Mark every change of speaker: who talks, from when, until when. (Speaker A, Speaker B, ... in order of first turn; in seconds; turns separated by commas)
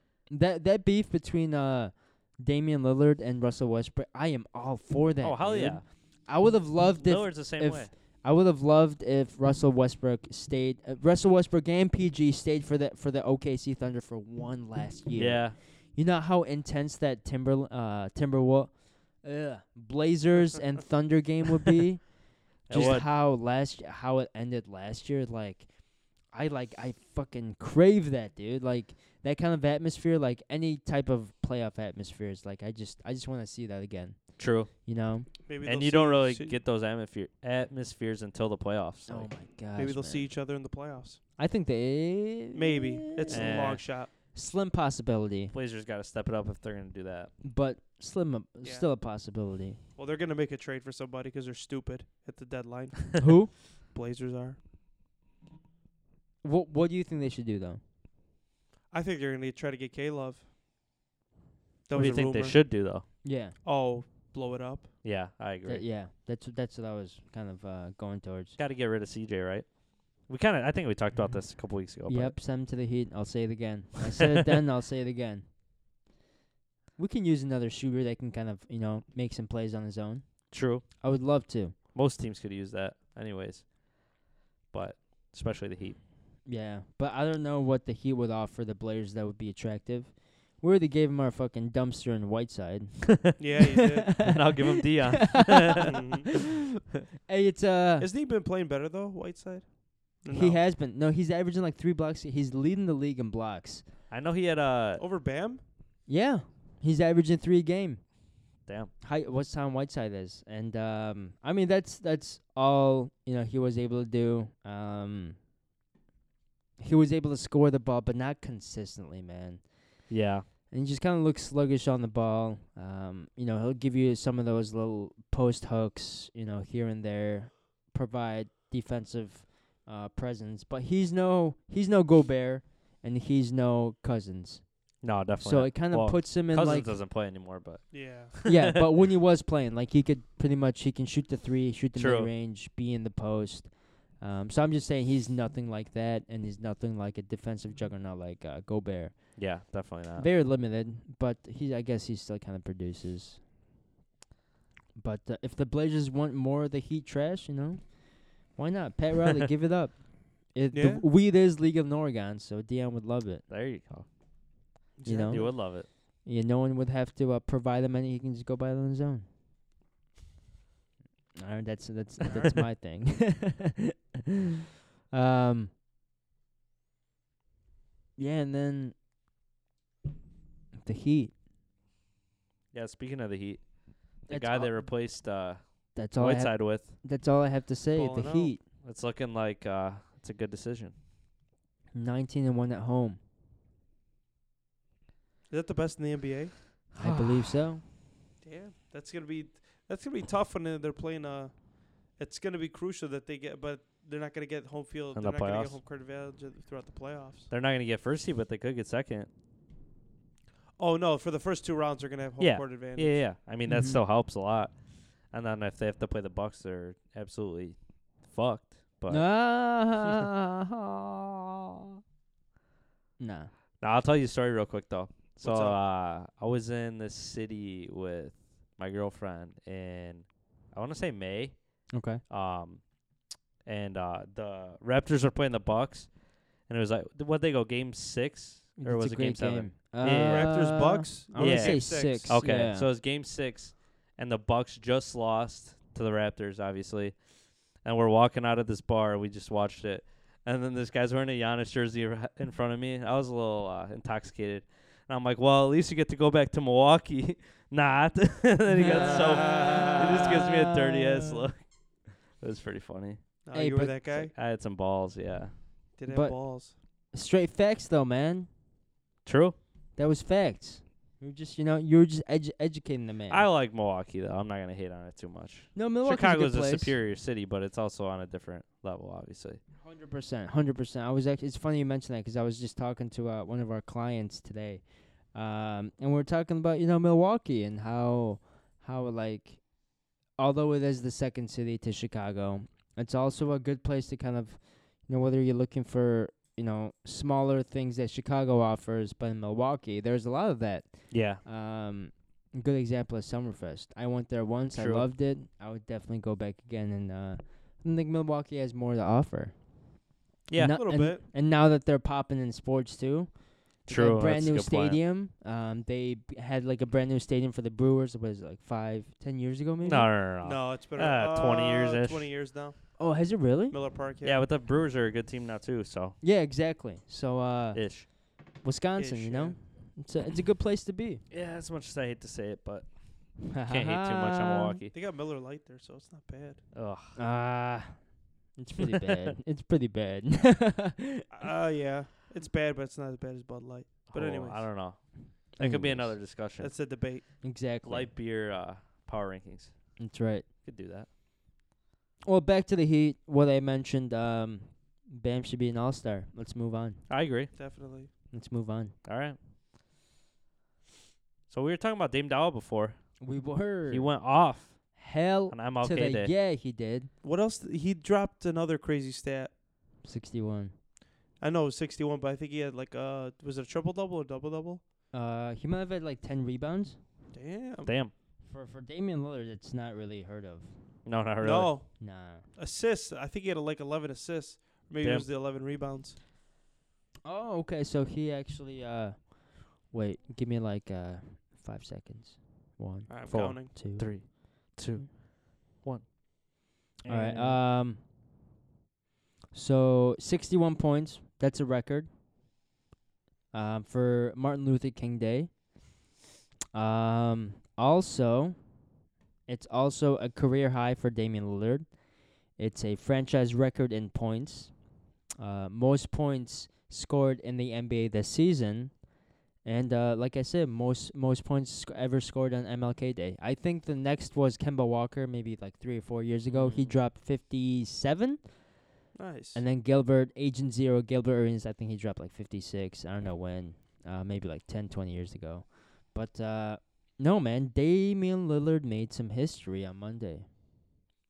Speaker A: 0.3-35.3, Speaker B: 5.2-5.9, Speaker B: 7.0-7.9, Speaker B: 15.2-15.6, Speaker B: 22.7-23.1, Speaker B: 34.4-34.7, Speaker C: 35.5-36.6, Speaker B: 35.6-39.3, Speaker A: 39.1-40.3, Speaker C: 39.8-41.2, Speaker A: 41.4-45.5, Speaker C: 42.5-44.1, Speaker B: 43.3-43.8, Speaker B: 45.5-47.3, Speaker A: 47.4-49.8, Speaker C: 48.6-48.9, Speaker C: 50.0-54.6, Speaker A: 53.2-53.5, Speaker A: 56.4-57.8, Speaker C: 58.9-60.5, Speaker C: 61.9-64.9, Speaker B: 61.9-63.1, Speaker A: 63.2-63.6, Speaker B: 65.0-65.8, Speaker A: 65.6-68.6, Speaker B: 68.6-72.3, Speaker A: 72.0-75.5, Speaker A: 77.0-81.8, Speaker B: 80.5-80.8, Speaker B: 81.9-84.2, Speaker B: 84.7-86.0, Speaker A: 86.4-95.9, Speaker C: 93.4-94.3, Speaker B: 94.2-95.9, Speaker C: 95.8-96.3, Speaker A: 97.3-98.1, Speaker C: 98.0-100.6, Speaker A: 100.3-103.9, Speaker B: 104.1-105.0, Speaker C: 105.0-105.6, Speaker A: 106.1-108.3, Speaker B: 108.7-108.9, Speaker A: 109.0-115.4, Speaker A: 116.8-120.1, Speaker B: 120.1-120.4, Speaker A: 120.7-137.0, Speaker B: 135.0-138.7, Speaker C: 137.9-138.3, Speaker A: 138.4-153.4, Speaker B: 141.9-142.3, Speaker B: 149.3-150.3, Speaker A: 154.9-163.4, Speaker C: 160.7-161.0, Speaker B: 163.5-164.1, Speaker C: 164.9-165.5, Speaker A: 165.0-169.3, Speaker B: 165.3-165.9, Speaker A: 171.3-173.9, Speaker C: 172.2-172.6, Speaker A: 175.1-175.7, Speaker A: 178.2-178.9, Speaker A: 180.8-181.3, Speaker B: 182.7-186.9, Speaker A: 184.3-185.1, Speaker A: 185.9-188.6, Speaker C: 187.9-188.5, Speaker B: 188.8-190.9, Speaker A: 191.9-193.2, Speaker C: 195.5-196.7, Speaker B: 196.9-197.5, Speaker A: 197.0-197.8, Speaker C: 198.4-207.5, Speaker B: 205.1-205.8, Speaker B: 207.5-209.3, Speaker C: 210.8-213.2, Speaker B: 212.4-219.3, Speaker A: 213.7-214.0, Speaker A: 219.1-221.5, Speaker A: 223.2-223.5, Speaker B: 223.8-263.2, Speaker C: 225.4-225.8, Speaker A: 231.9-232.2, Speaker A: 238.8-242.9, Speaker C: 240.2-242.4, Speaker A: 258.7-261.4, Speaker C: 263.4-264.3, Speaker A: 263.5-264.0, Speaker B: 264.1-265.6, Speaker C: 265.9-266.7, Speaker A: 266.1-268.5, Speaker B: 269.2-269.6, Speaker A: 269.9-273.5, Speaker B: 273.3-279.6, Speaker A: 275.7-276.9, Speaker A: 279.8-289.7, Speaker A: 290.4-309.8, Speaker B: 301.1-301.4, Speaker B: 304.7-305.1, Speaker B: 310.5-310.8, Speaker A: 310.5-320.1, Speaker C: 310.7-311.2, Speaker B: 313.9-315.0, Speaker B: 319.8-322.3, Speaker C: 320.4-323.0, Speaker A: 323.0-323.8, Speaker C: 323.7-324.4, Speaker B: 324.2-326.2, Speaker A: 326.2-331.2, Speaker B: 327.7-328.1, Speaker C: 329.0-329.6, Speaker B: 331.3-334.9, Speaker A: 333.5-334.8, Speaker C: 334.9-336.6, Speaker B: 336.7-337.2, Speaker A: 337.1-341.3, Speaker C: 341.3-344.8, Speaker B: 344.1-350.0, Speaker A: 345.5-346.2, Speaker C: 346.6-347.3, Speaker A: 347.4-348.1, Speaker A: 350.0-350.5, Speaker B: 350.6-351.1, Speaker A: 352.2-357.1, Speaker B: 357.1-357.5, Speaker C: 357.5-358.1, Speaker A: 358.3-358.9, Speaker B: 359.0-359.4, Speaker B: 361.5-363.2, Speaker A: 363.2-364.3, Speaker B: 363.9-366.3, Speaker A: 364.9-367.1, Speaker C: 367.2-369.5, Speaker A: 370.0-370.7, Speaker C: 371.4-374.8, Speaker A: 375.1-377.0, Speaker C: 377.3-377.9, Speaker B: 377.9-378.1, Speaker A: 378.4-381.0, Speaker B: 381.0-381.8, Speaker C: 381.4-386.1, Speaker A: 382.0-382.4, Speaker B: 385.0-385.3, Speaker A: 387.2-394.8, Speaker C: 393.1-393.7, Speaker B: 393.3-396.1, Speaker B: 397.0-397.6, Speaker A: 397.1-398.0, Speaker A: 399.5-402.1, Speaker A: 403.5-405.6, Speaker A: 406.7-408.8, Speaker A: 409.5-414.9, Speaker A: 415.4-419.1, Speaker A: 419.6-428.7, Speaker B: 426.5-426.9, Speaker C: 429.1-429.6, Speaker A: 429.5-440.4